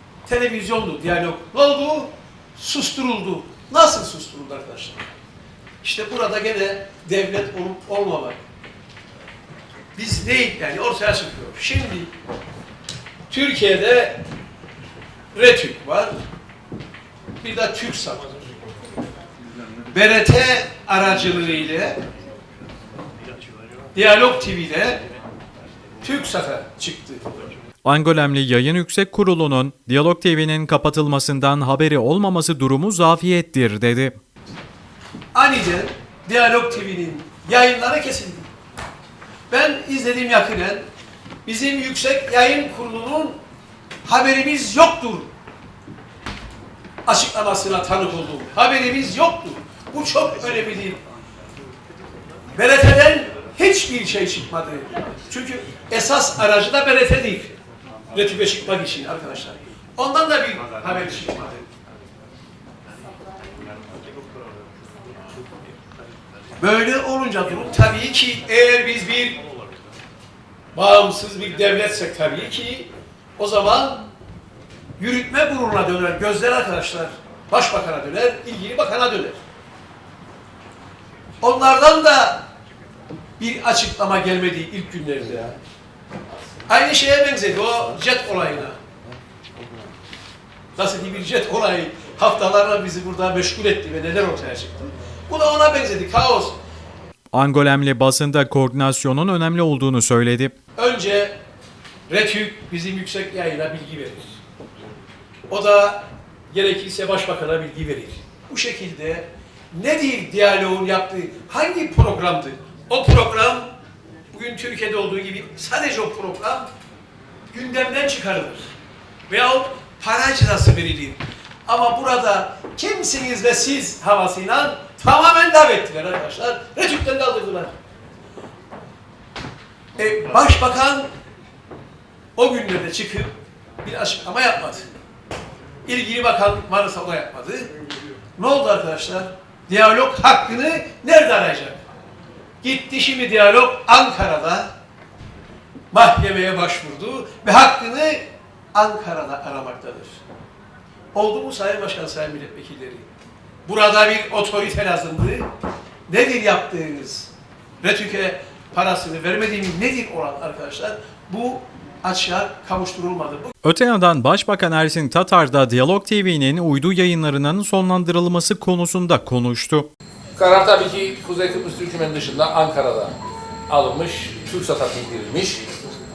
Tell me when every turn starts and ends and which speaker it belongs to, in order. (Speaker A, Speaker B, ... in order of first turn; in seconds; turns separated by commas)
Speaker A: 0.3-5.1, Speaker A: 5.8-8.4, Speaker A: 10.0-12.1, Speaker A: 13.3-14.2, Speaker A: 15.3-16.1, Speaker A: 17.4-18.3, Speaker A: 19.9-22.0, Speaker A: 23.9-25.0, Speaker A: 26.0-27.2, Speaker B: 27.8-34.2, Speaker A: 35.3-38.5, Speaker A: 39.5-40.8, Speaker A: 41.5-43.4, Speaker A: 44.0-45.3, Speaker A: 47.1-51.0, Speaker A: 52.5-57.5, Speaker A: 58.1-61.6, Speaker A: 66.6-69.4, Speaker A: 70.8-74.1, Speaker A: 75.0-79.4, Speaker A: 81.4-82.4, Speaker A: 83.4-85.5, Speaker A: 86.7-88.8, Speaker A: 90.8-96.6, Speaker B: 97.3-100.5, Speaker A: 100.8-101.4, Speaker A: 102.1-104.4, Speaker A: 105.5-113.7, Speaker A: 114.3-116.7, Speaker A: 117.5-118.7, Speaker A: 119.3-127.7, Speaker A: 130.0-131.1, Speaker A: 132.4-134.9, Speaker A: 135.9-137.7, Speaker A: 138.4-141.8, Speaker A: 142.6-144.7, Speaker A: 145.9-148.2, Speaker A: 148.7-150.2, Speaker A: 151.1-153.1, Speaker A: 153.7-155.5, Speaker A: 156.1-157.3, Speaker A: 157.8-163.5, Speaker B: 163.6-169.9, Speaker C: 170.4-173.2, Speaker C: 173.7-175.6